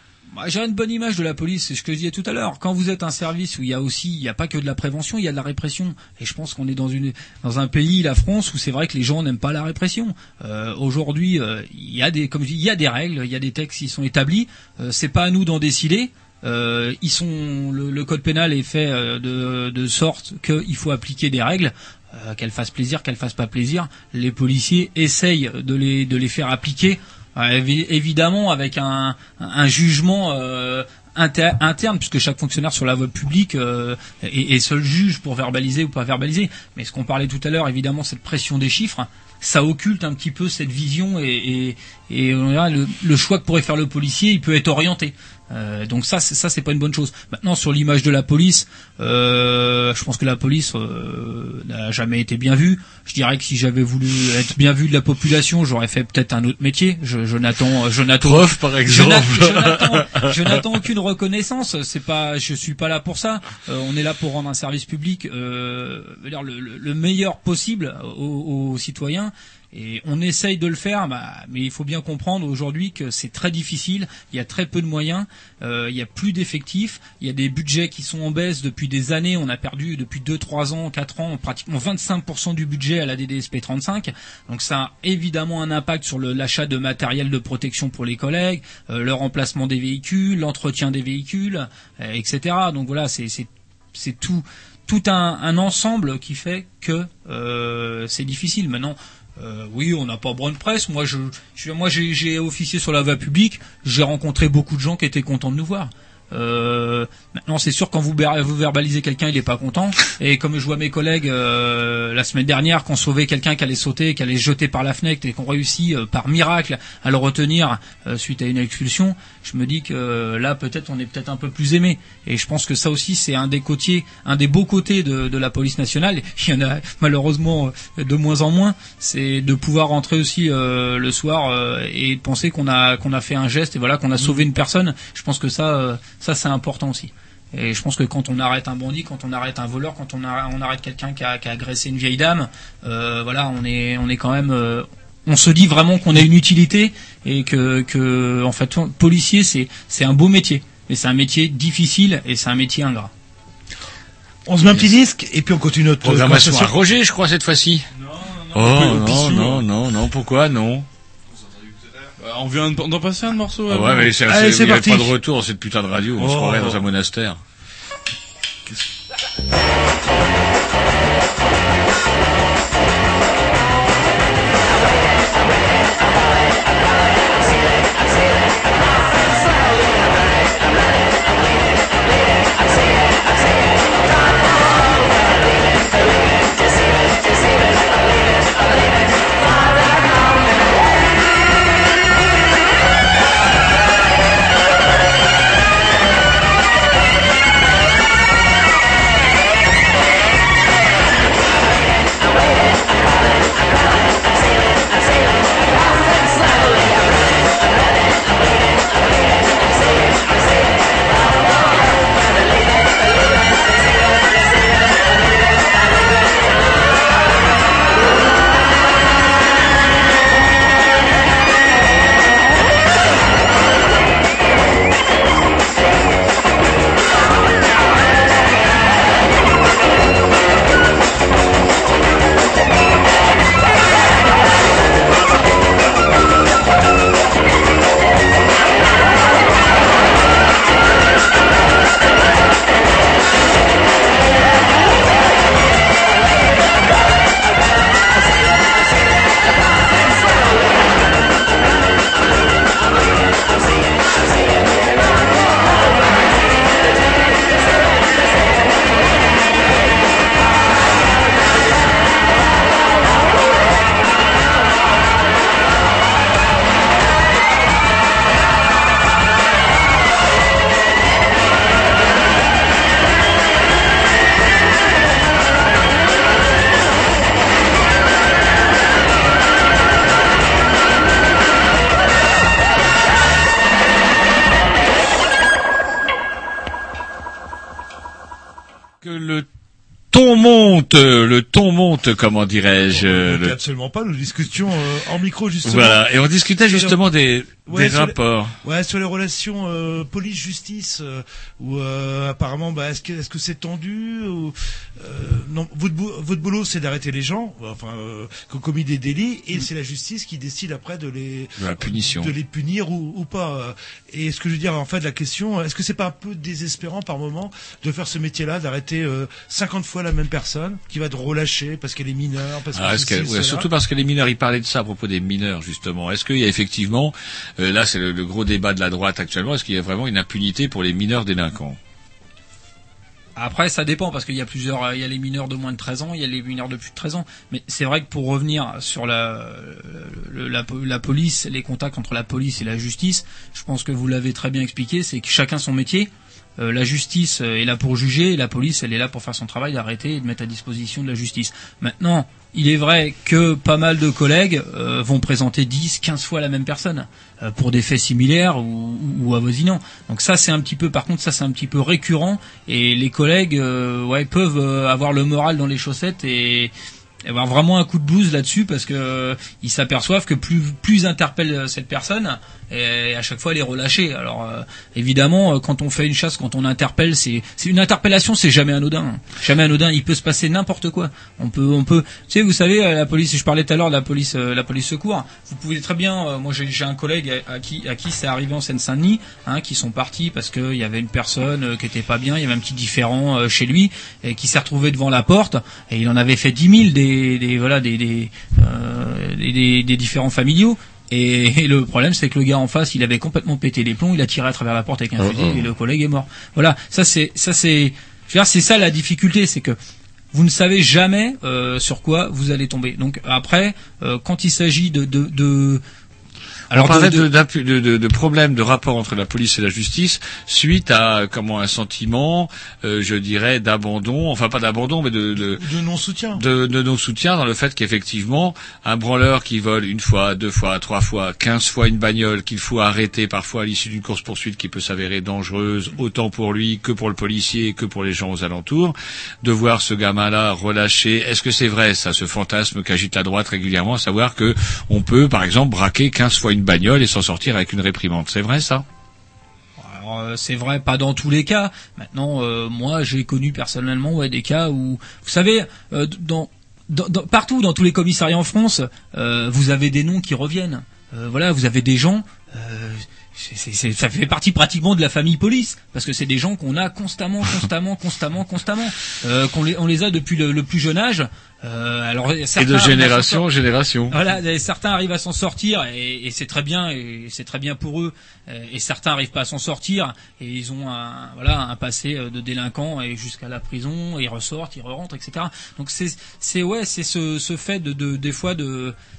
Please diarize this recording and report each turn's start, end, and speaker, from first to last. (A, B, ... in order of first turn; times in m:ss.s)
0:00.3-2:33.1 A
0:58.2-1:00.6 B
2:34.5-2:36.8 C
2:36.0-2:37.9 B
2:38.1-2:39.6 D
2:38.5-2:40.9 B
2:42.1-2:44.2 D
2:43.7-2:47.4 B
2:44.3-2:45.2 C
2:46.2-2:46.8 C
4:49.0-4:49.5 B
4:50.1-4:53.6 B
4:52.9-4:56.0 C
4:55.6-4:58.6 B
4:56.7-4:57.0 C
4:57.7-5:23.7 C
5:11.6-5:12.3 B
5:22.7-5:31.8 B
5:33.4-6:06.7 A
6:07.2-6:49.8 A
6:45.2-6:45.7 B
6:50.3-6:55.8 A
6:56.7-6:57.3 A
6:56.7-7:05.6 B
7:05.6-7:06.4 C
7:06.4-7:28.8 B
7:29.8-7:53.5 A
7:52.6-7:54.2 B
7:54.1-8:09.0 A